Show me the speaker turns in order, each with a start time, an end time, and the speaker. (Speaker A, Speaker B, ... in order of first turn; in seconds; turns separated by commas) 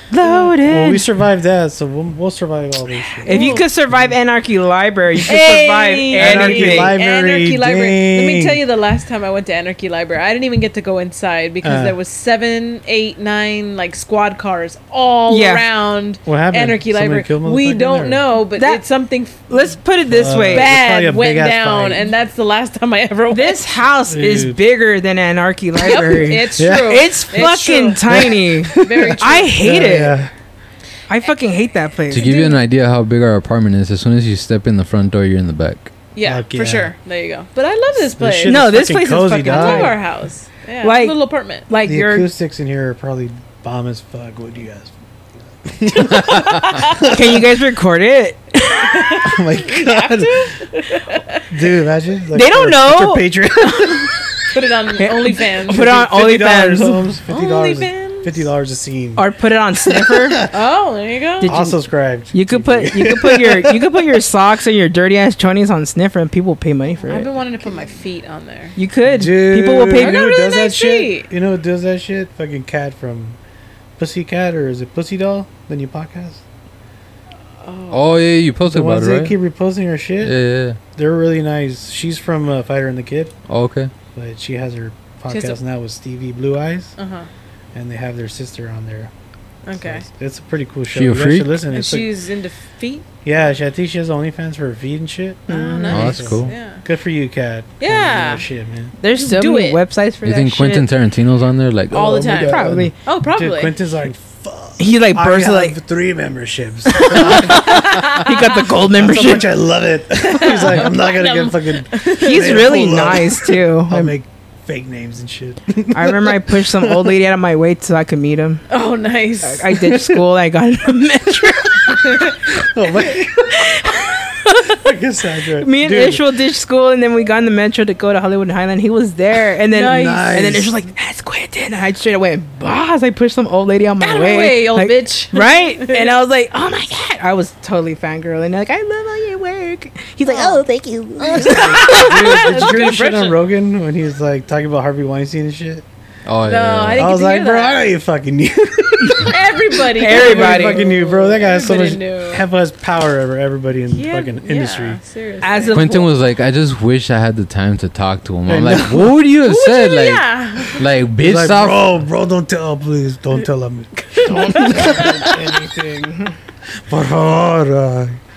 Speaker A: 0.1-1.1, Speaker B: 0.2-0.5, Speaker C: 0.6-4.1, Speaker B: 3.2-3.6, Speaker A: 3.2-7.0, Speaker B: 5.2-19.6, Speaker C: 6.1-8.6, Speaker C: 11.6-12.0, Speaker A: 15.3-15.6, Speaker C: 16.2-18.2, Speaker A: 18.5-18.8, Speaker A: 19.5-20.7, Speaker C: 20.1-22.1, Speaker B: 20.5-23.6, Speaker A: 23.3-30.2, Speaker C: 24.1-24.6, Speaker B: 25.8-29.8, Speaker C: 26.6-27.1, Speaker C: 28.1-30.3, Speaker A: 31.1-32.3, Speaker D: 32.1-35.9, Speaker B: 32.1-32.6, Speaker B: 36.1-38.7, Speaker C: 36.2-36.9, Speaker C: 37.9-40.0, Speaker A: 38.4-40.0, Speaker B: 39.4-41.6, Speaker A: 40.8-42.3, Speaker C: 41.8-44.9, Speaker C: 45.6-47.4, Speaker B: 45.9-47.2, Speaker A: 47.0-49.2, Speaker B: 48.8-51.4, Speaker C: 49.2-50.5, Speaker C: 51.5-54.2, Speaker A: 52.3-54.1, Speaker B: 54.5-55.9, Speaker A: 55.0-57.0, Speaker C: 55.7-59.2, Speaker B: 57.3-58.4, Speaker A: 59.1-60.5, Speaker C: 59.8-60.5, Speaker B: 60.5-61.5, Speaker A: 61.4-61.8, Speaker C: 61.4-64.2, Speaker A: 62.3-67.3, Speaker B: 67.1-68.7, Speaker A: 68.8-70.2, Speaker C: 69.1-73.4, Speaker B: 69.9-71.3, Speaker C: 74.0-76.4, Speaker B: 77.6-78.2, Speaker D: 77.9-79.3, Speaker C: 78.6-80.3, Speaker D: 80.2-80.8, Speaker C: 80.9-83.3, Speaker D: 83.5-83.9, Speaker C: 84.1-86.9, Speaker B: 85.3-85.6, Speaker B: 87.0-87.3, Speaker C: 87.7-89.1, Speaker B: 89.7-90.0, Speaker C: 89.8-92.1, Speaker D: 90.9-91.6, Speaker B: 91.7-93.1, Speaker C: 93.2-98.9, Speaker B: 95.5-96.8, Speaker A: 95.5-95.9, Speaker D: 95.9-96.5, Speaker B: 97.8-98.4, Speaker A: 99.0-100.9, Speaker B: 99.1-99.8, Speaker D: 100.2-102.4, Speaker B: 101.9-103.8, Speaker C: 101.9-108.2, Speaker A: 102.3-102.9, Speaker A: 104.8-105.8, Speaker A: 106.9-109.5, Speaker B: 107.5-108.4, Speaker C: 108.9-117.2, Speaker B: 110.2-112.8, Speaker A: 112.1-114.1, Speaker A: 115.9-118.6, Speaker B: 118.7-119.7, Speaker A: 119.4-122.3, Speaker C: 119.8-120.2, Speaker C: 122.5-123.8, Speaker A: 123.5-124.8, Speaker C: 124.6-126.2, Speaker A: 125.6-142.4, Speaker B: 129.7-130.3, Speaker C: 129.9-130.7, Speaker B: 134.0-136.1, Speaker B: 140.2-140.6, Speaker C: 141.2-145.8, Speaker B: 141.3-143.4, Speaker D: 146.2-147.1, Speaker B: 146.4-147.8, Speaker C: 146.9-155.0, Speaker B: 149.2-152.4, Speaker A: 149.9-150.8, Speaker B: 153.9-155.8, Speaker A: 155.4-156.2, Speaker D: 155.7-161.8, Speaker C: 158.5-159.2, Speaker B: 159.4-160.8, Speaker C: 161.2-163.9, Speaker B: 164.0-165.4, Speaker A: 164.2-166.3, Speaker C: 164.4-165.4, Speaker C: 166.9-168.2